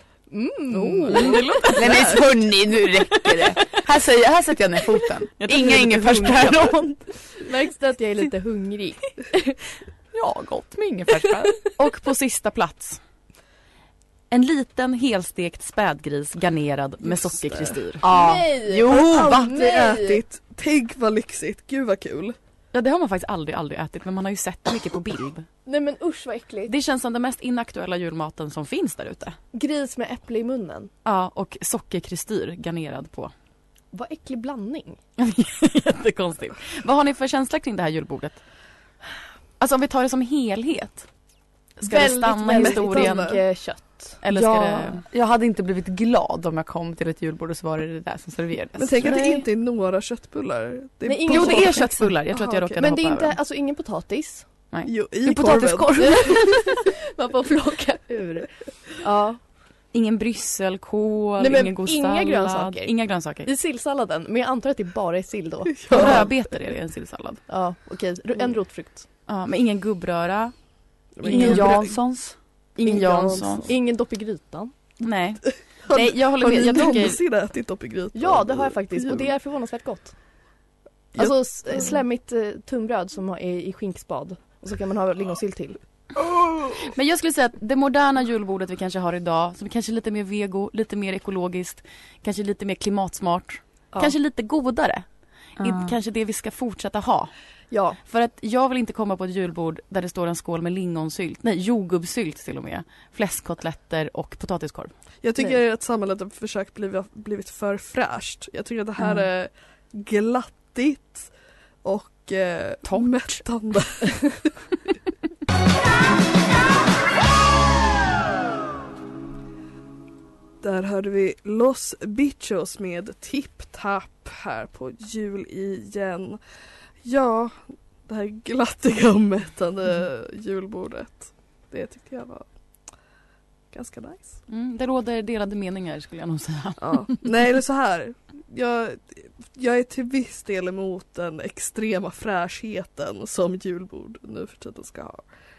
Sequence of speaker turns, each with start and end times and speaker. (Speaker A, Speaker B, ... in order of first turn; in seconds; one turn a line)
Speaker A: 0.3-1.4
Speaker B: 0.7-2.3
Speaker C: 1.1-2.0
Speaker D: 1.7-7.0
Speaker C: 5.4-6.7
Speaker A: 7.4-9.6
Speaker D: 10.1-11.7
Speaker C: 11.8-13.0
Speaker C: 14.3-18.1
Speaker B: 17.1-17.8
Speaker D: 18.0-19.5
Speaker A: 18.1-20.2
Speaker B: 18.8-22.4
Speaker C: 22.7-25.5
Speaker A: 25.6-26.7
Speaker C: 26.7-29.4
Speaker A: 29.5-30.9
Speaker C: 31.0-33.3
Speaker A: 33.9-35.0
Speaker C: 35.2-38.4
Speaker C: 39.6-41.1
Speaker C: 41.8-43.3
Speaker A: 41.8-44.2
Speaker B: 42.4-43.4
Speaker C: 44.2-45.0
Speaker D: 44.3-49.1
Speaker B: 48.8-52.8
Speaker A: 49.0-49.5
Speaker A: 51.0-51.9
Speaker C: 51.3-53.3
Speaker A: 52.8-54.5
Speaker C: 54.7-55.9
Speaker B: 54.9-56.5
Speaker D: 55.2-56.2
Speaker A: 56.0-59.4
Speaker C: 59.9-63.5
Speaker A: 61.4-66.3
Speaker B: 65.8-66.3
Speaker C: 65.9-67.4
Speaker A: 67.5-69.0
Speaker C: 69.3-70.5
Speaker B: 71.2-72.0
Speaker C: 71.2-71.8
Speaker D: 71.3-72.4
Speaker C: 72.8-73.7
Speaker A: 72.8-74.7
Speaker B: 73.3-73.7
Speaker C: 75.0-77.2
Speaker B: 75.8-79.3
Speaker A: 78.1-80.1
Speaker B: 81.1-82.0
Speaker A: 81.2-85.8
Speaker C: 86.8-97.3
Speaker D: 95.6-95.9
Speaker A: 97.7-98.0
Speaker C: 98.0-104.9
Speaker B: 105.2-111.3
Speaker B: 111.8-114.4
Speaker C: 112.9-113.4
Speaker B: 120.6-126.4
Speaker B: 127.0-132.4
Speaker B: 133.7-134.4
Speaker C: 134.5-137.1
Speaker B: 136.8-145.2